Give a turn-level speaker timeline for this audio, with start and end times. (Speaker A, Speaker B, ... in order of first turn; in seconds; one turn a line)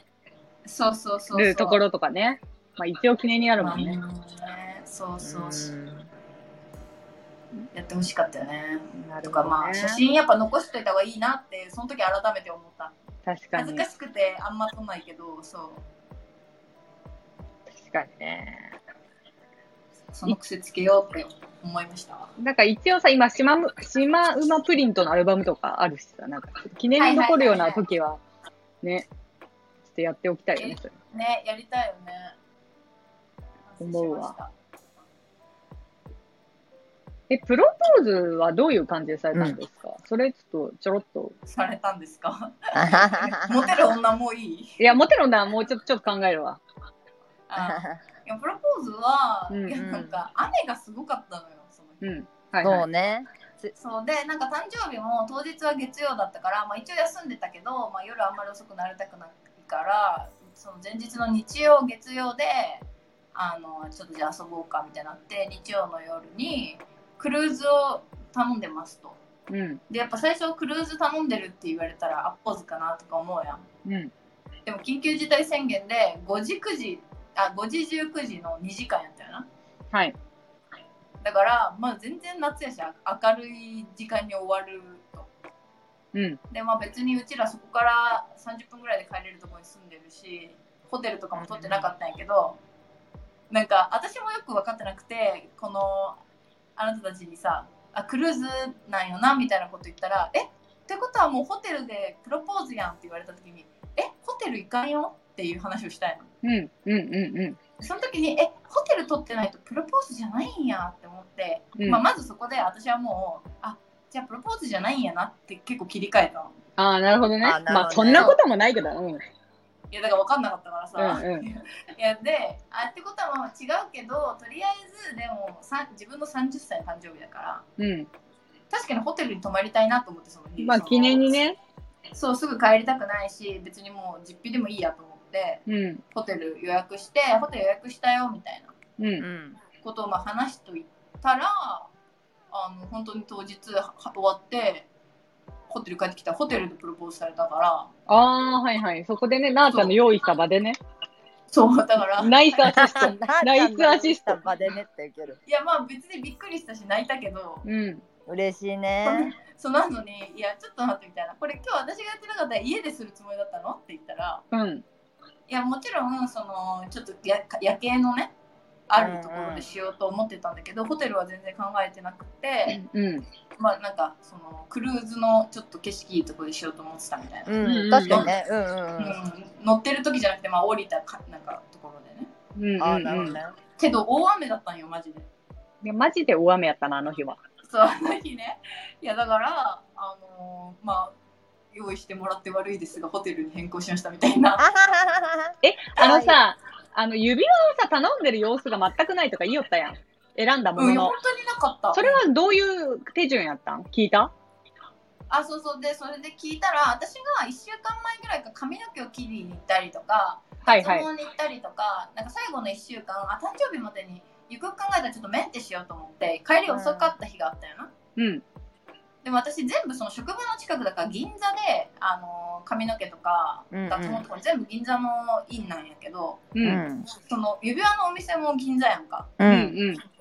Speaker A: 0.7-1.8
Speaker B: 1.3-4.0
Speaker A: 3.6-5.7
Speaker C: 5.2-6.1
Speaker A: 7.7-12.9
Speaker B: 9.0-10.0
Speaker B: 13.3-13.9
Speaker A: 13.6-15.8
Speaker B: 17.8-18.7
Speaker A: 20.1-22.3
Speaker B: 22.4-28.2
Speaker A: 27.0-27.8
Speaker B: 28.8-29.1
Speaker B: 29.9-30.9
Speaker A: 30.6-32.4
Speaker A: 33.7-34.5
Speaker B: 33.8-34.4
Speaker B: 37.3-41.4
Speaker A: 41.5-44.8
Speaker C: 42.7-43.9
Speaker B: 44.8-46.6
Speaker A: 47.5-52.0
Speaker C: 47.6-48.0
Speaker B: 49.5-50.1
Speaker B: 52.0-52.9
Speaker C: 52.6-53.7
Speaker A: 53.8-69.2
Speaker B: 69.5-69.8
Speaker A: 69.9-73.7
Speaker B: 73.8-74.1
Speaker A: 74.7-79.5
Speaker A: 81.2-85.3
Speaker B: 86.1-86.4
Speaker A: 86.5-92.6
Speaker C: 91.4-91.8
Speaker A: 93.5-96.2
Speaker A: 96.8-106.3
Speaker B: 106.4-107.6
Speaker A: 107.8-116.6
Speaker B: 111.8-112.0
Speaker B: 116.8-119.2
Speaker C: 117.4-118.4
Speaker A: 119.9-127.7
Speaker B: 121.0-121.5
Speaker B: 127.8-128.1
Speaker A: 128.7-131.4
Speaker B: 130.6-131.6
Speaker A: 132.1-138.8
Speaker B: 135.7-136.0
Speaker B: 139.0-139.3
Speaker C: 139.2-139.6
Speaker A: 139.8-141.9
Speaker A: 142.5-144.9
Speaker A: 145.7-147.9
Speaker B: 148.1-150.8
Speaker A: 149.7-149.9
Speaker A: 151.5-152.9
Speaker B: 152.2-154.4
Speaker C: 152.7-155.4
Speaker A: 155.5-157.7
Speaker B: 157.7-158.0
Speaker C: 158.3-159.3
Speaker A: 159.0-164.4
Speaker B: 164.5-164.8
Speaker A: 165.5-168.3
Speaker A: 168.9-172.8
Speaker C: 168.9-169.7
Speaker B: 172.7-173.3
Speaker A: 173.6-178.3
Speaker C: 177.5-179.2
Speaker B: 177.6-178.3
Speaker A: 179.0-182.3
Speaker B: 182.6-183.4
Speaker C: 182.8-183.6
Speaker A: 183.8-185.3
Speaker B: 185.8-187.4
Speaker A: 187.7-191.2
Speaker A: 191.7-194.7
Speaker C: 194.6-196.4
Speaker B: 195.6-201.2
Speaker A: 200.8-202.2
Speaker B: 201.9-204.3
Speaker A: 205.3-217.9
Speaker B: 210.7-211.1
Speaker C: 216.7-217.1
Speaker B: 218.2-218.4
Speaker A: 219.2-226.5
Speaker C: 223.7-224.2
Speaker B: 226.6-226.8
Speaker C: 226.6-227.1
Speaker A: 227.2-229.4
Speaker C: 229.4-229.8
Speaker B: 229.4-230.0